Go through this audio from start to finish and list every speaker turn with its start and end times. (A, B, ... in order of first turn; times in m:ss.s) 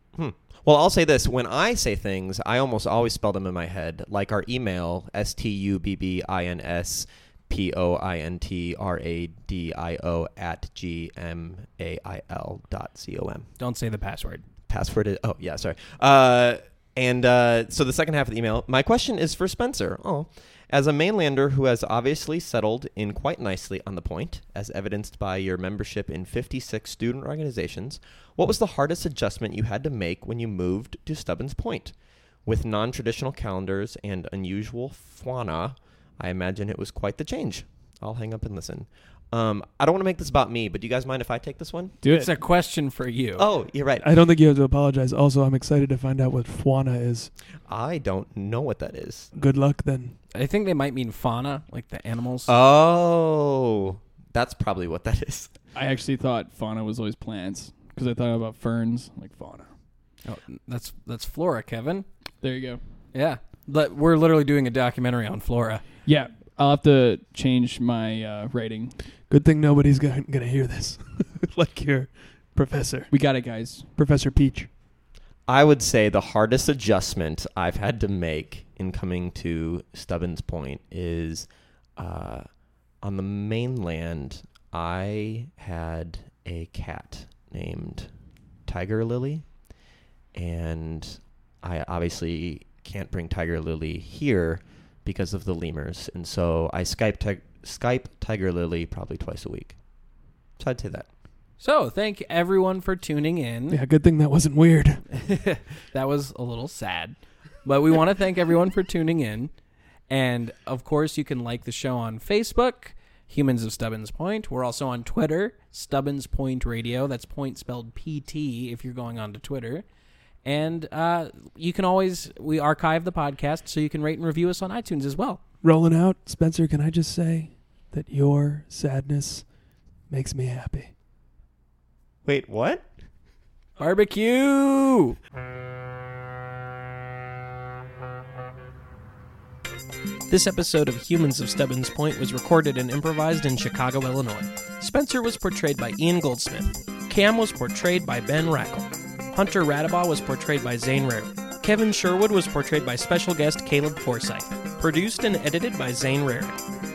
0:00.1-0:13.5 A
0:13.6-0:14.4 B
0:14.7-0:41.9 A
0:42.0-0:42.3 C
0:42.0-0:43.4 B
0:43.4-0:44.1 A
0:44.0-0:47.3 D
0:47.6-0:49.3 A
0:49.3-0:50.2 D
0:50.3-0:52.5 B
0:52.5-0:55.5 A
0:55.7-0:59.7 C
1:00.2-1:02.0 B
1:02.4-1:02.8 C
1:03.1-1:05.8 B
1:06.0-1:09.0 C
1:09.3-1:13.1 D
1:13.1-1:13.9 C
1:14.0-1:14.7 D
1:15.5-1:22.5 A
1:23.0-1:28.1 A
1:28.6-1:29.5 A
1:30.3-1:39.8 A
1:40.6-1:41.1 A
1:41.6-1:43.8 B
1:43.7-1:45.0 D
1:45.1-1:49.5 B
1:50.1-1:59.8 B
2:00.4-2:05.4 B
2:05.6-2:09.4 D
2:10.1-2:10.9 D
2:12.2-2:12.9 A
2:13.8-2:15.2 B
2:20.3-2:36.6 B